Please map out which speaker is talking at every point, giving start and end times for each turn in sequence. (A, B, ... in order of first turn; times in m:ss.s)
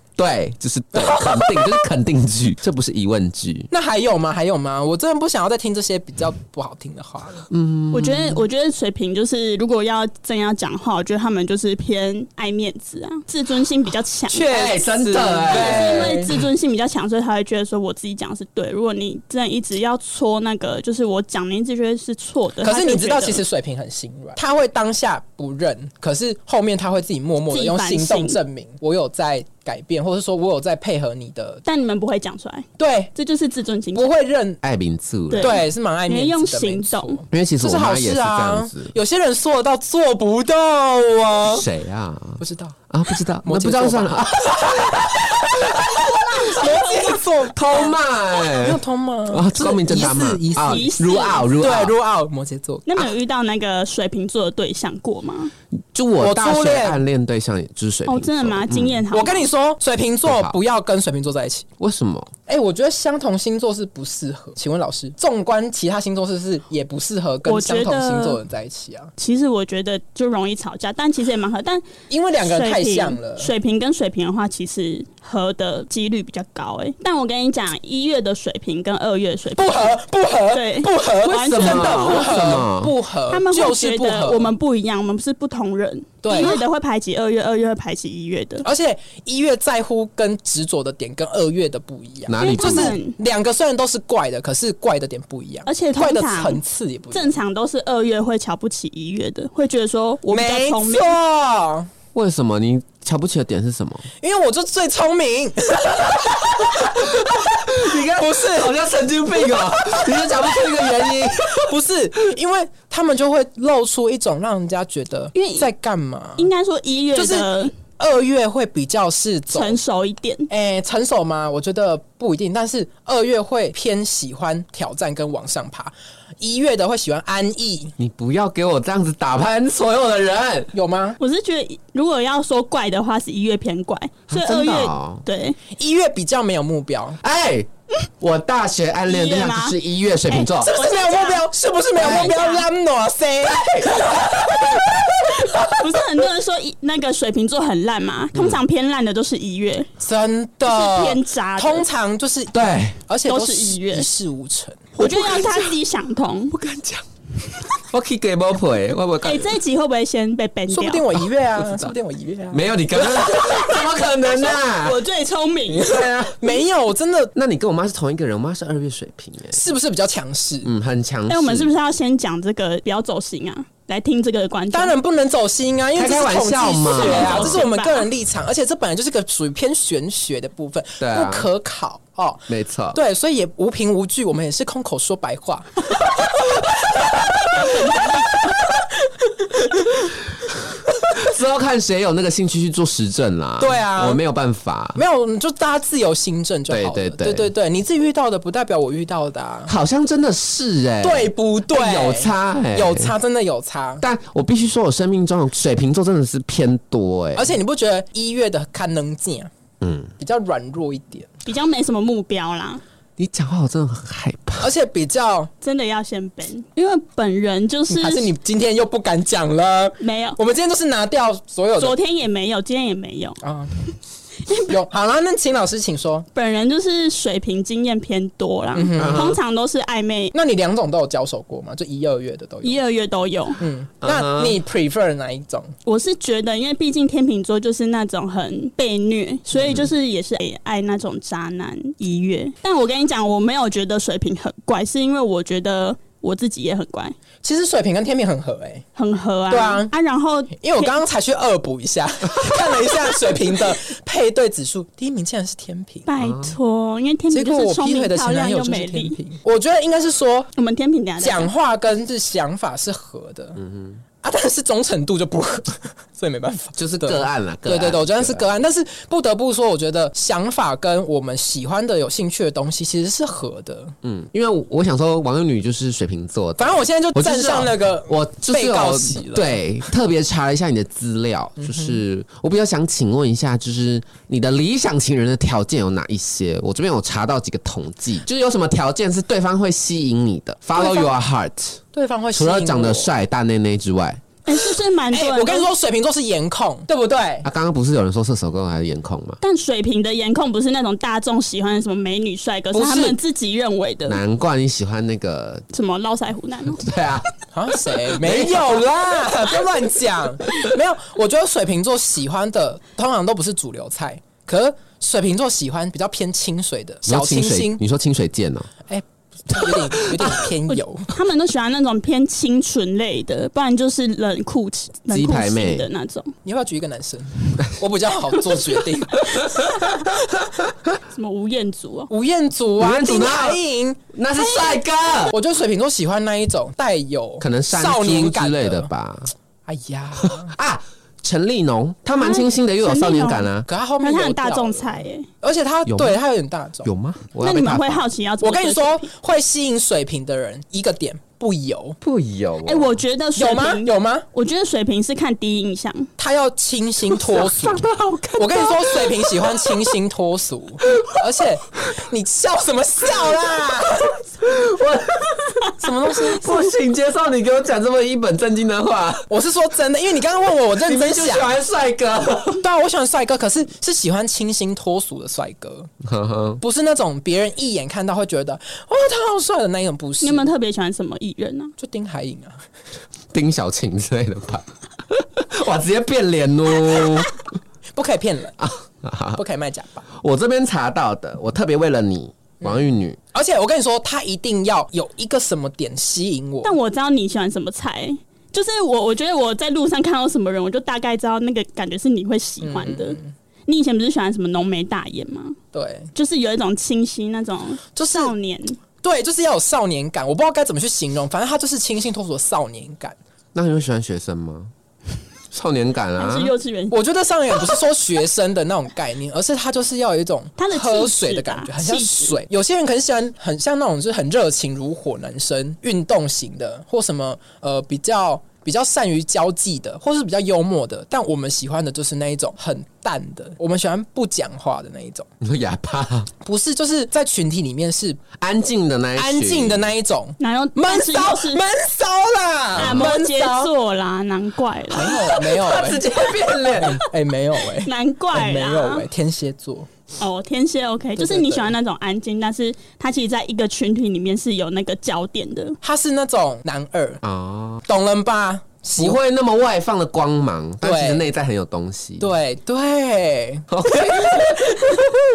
0:00.2-0:03.7 A
0:00.9-0:01.8 B
0:03.7-0:07.5 B
0:07.5-0:08.4 A
0:07.9-0:23.4 C
0:14.3-0:16.4 B
0:14.5-0:16.3 A
0:22.6-0:31.6 B
0:27.5-0:28.4 C
0:31.6-0:34.1 C
0:32.8-0:33.1 B
0:33.9-0:34.6 B
0:34.6-0:35.6 A
0:35.3-0:37.2 C
0:35.4-0:41.7 B
0:37.3-0:38.9 A
0:41.5-0:46.0 A
0:42.4-0:42.9 B
0:43.4-0:48.0 B
0:46.1-0:47.9 C
0:47.5-0:52.0 A
0:48.5-0:50.9 B
0:50.6-0:51.6 C
0:51.6-0:53.1 B
0:52.9-0:55.5 C
0:55.9-0:59.0 A
0:56.2-0:57.0 B
0:58.1-0:59.5 C
0:59.1-1:01.7 B
1:00.3-1:00.6 A
1:01.8-1:02.3 A
1:02.5-1:09.1 B
1:07.4-1:08.4 C
1:09.2-1:22.4 C
1:12.1-1:13.5 B
1:19.6-1:24.5 B
1:21.3-1:22.9 A
1:23.3-1:28.7 C
1:26.2-1:26.6 B
1:28.6-1:37.4 B
1:32.3-1:33.0 A
1:32.4-1:33.2 C
1:35.7-1:36.6 C
1:37.1-1:41.2 C
1:40.3-1:41.9 B
1:42.1-1:44.1 A
1:44.2-1:48.8 B
1:46.1-1:51.7 A
1:50.3-1:56.5 B
1:55.3-1:55.7 C
1:56.4-1:57.7 C
1:57.2-1:59.8 B
1:59.5-2:00.5 C
2:00.5-2:07.9 B
2:08.0-2:10.7 A
2:10.7-2:11.2 B
2:11.2-2:15.6 C
2:14.3-2:15.2 A
2:15.7-2:17.2 B
2:17.2-2:17.7 A
2:18.2-2:20.7 A
2:19.1-2:19.8 C
2:20.3-2:22.7 C
2:20.5-2:25.7 B
2:22.0-2:22.3 A
2:23.5-2:25.5 A
2:25.7-2:29.9 C
2:28.3-2:28.6 A
2:30.0-2:35.0 B
2:30.6-2:31.9 C
2:32.5-2:33.0 A
2:33.3-2:34.1 C
2:35.0-2:35.7 A
2:35.0-2:36.6 C
2:36.5-2:37.0 A
2:37.7-2:39.6 A
2:39.2-2:41.2 C
2:40.7-2:43.2 B
2:41.6-2:41.9 A
2:42.5-2:45.0 A
2:43.1-2:46.0 C
2:45.7-2:47.3 B
2:47.3-2:49.6 A
2:49.5-2:50.7 B
2:50.6-2:51.7 A
2:51.3-2:54.9 C
2:54.7-3:09.9 B
2:55.9-2:57.6 A
2:56.9-2:58.0 C
3:01.0-3:01.5 A
3:02.5-3:03.0 A
3:07.5-3:08.4 C
3:10.0-3:10.5 A
3:11.1-3:15.0 A
3:13.6-3:14.2 B
3:15.0-3:19.7 B
3:16.7-3:17.5 A
3:19.7-3:23.1 A
3:21.0-3:24.0 B
3:24.0-3:27.6 A
3:27.4-3:29.5 B
3:29.8-3:30.1 A
3:30.2-3:31.3 B
3:31.4-3:32.8 C
3:33.2-3:34.7 A
3:34.6-3:35.5 B
3:35.6-3:38.3 C
3:37.9-3:42.0 B
3:40.0-3:40.4 C
3:41.8-3:44.7 C
3:43.4-3:43.8 B
3:44.6-3:46.3 B
3:46.3-3:50.4 C
3:48.7-3:49.3 B
3:49.0-3:49.4 A
3:50.3-3:52.8 B
3:52.6-3:53.6 C
3:53.6-3:55.7 B
3:54.0-3:54.6 A
3:55.9-4:07.2 C
4:07.4-4:08.9 B
4:09.0-4:11.0 C
4:09.5-4:09.9 B
4:10.6-4:16.1 B
4:16.1-4:19.2 C
4:16.2-4:16.6 A
4:17.3-4:20.5 B
4:20.6-4:21.5 C
4:21.2-4:23.6 B
4:23.6-4:24.0 A
4:24.2-4:33.9 B
4:26.8-4:28.4 A
4:34.0-4:51.8 A
4:36.6-4:39.6 B
4:41.6-4:42.0 B
4:50.8-4:51.1 C
4:51.9-4:53.1 B
4:52.3-4:54.2 A
4:54.4-4:55.7 C
4:55.1-4:57.4 B
4:57.4-4:59.4 A
4:59.4-5:04.2 C
5:02.7-5:03.2 B
5:04.1-5:05.6 A
5:05.7-5:06.9 C
5:06.8-5:07.2 A
5:07.5-5:17.8 B
5:08.2-5:08.8 A
5:17.1-5:18.7 A
5:18.9-5:21.1 B
5:19.6-5:20.5 A
5:20.7-5:26.3 C
5:25.1-5:25.9 A
5:26.4-5:30.2 B
5:29.2-5:29.9 A
5:31.1-5:32.1 C
5:32.1-5:34.8 B
5:32.8-5:33.6 A
5:34.1-5:35.4 A
5:35.3-5:38.9 B
5:37.4-5:39.3 A
5:39.7-5:40.5 B
5:40.2-5:43.7 A
5:42.2-5:45.3 C
5:43.7-5:46.9 B
5:45.9-5:46.2 A
5:46.8-5:48.0 A
5:47.4-5:49.1 C
5:48.4-5:52.0 B
5:52.0-5:53.0 A
5:52.6-5:56.1 C
5:53.4-5:54.3 B
5:56.2-5:57.8 B
5:57.1-5:59.9 A
5:58.4-6:04.3 B
6:00.9-6:01.1 A
6:04.4-6:09.3 A
6:05.8-6:06.6 B
6:09.3-6:11.6 B
6:10.8-6:12.6 A
6:12.6-6:15.9 B
6:16.0-6:16.6 A
6:16.6-6:20.5 B
6:20.2-6:21.7 C
6:21.8-6:22.6 B
6:23.3-6:27.4 A
6:27.9-6:28.6 B
6:28.6-6:29.4 A
6:29.3-6:30.0 B
6:30.1-6:33.2 A
6:33.3-6:36.8 B
6:36.6-6:45.6 C
6:42.6-6:43.3 B
6:45.7-6:46.1 B
6:46.1-6:48.8 C
6:48.0-6:48.3 B
6:49.0-6:53.2 B
6:53.5-6:54.7 A
6:55.5-6:56.5 A
6:56.2-6:57.0 C
6:56.9-7:15.3 B
7:00.6-7:02.4 C
7:15.4-7:16.3 A
7:16.4-7:18.2 B
7:18.4-7:19.9 A
7:19.2-7:23.7 B
7:20.4-7:21.6 C
7:22.8-7:23.1 A
7:22.8-7:25.4 C
7:24.9-7:29.9 B
7:25.2-7:27.0 A
7:27.8-7:29.1 C
7:30.2-7:35.8 C
7:31.2-7:31.7 B
7:35.8-7:37.2 B
7:37.2-7:37.8 A
7:37.9-7:39.2 B
7:39.0-7:42.3 A
7:40.8-7:41.3 B
7:42.2-7:45.1 B
7:43.7-7:45.1 A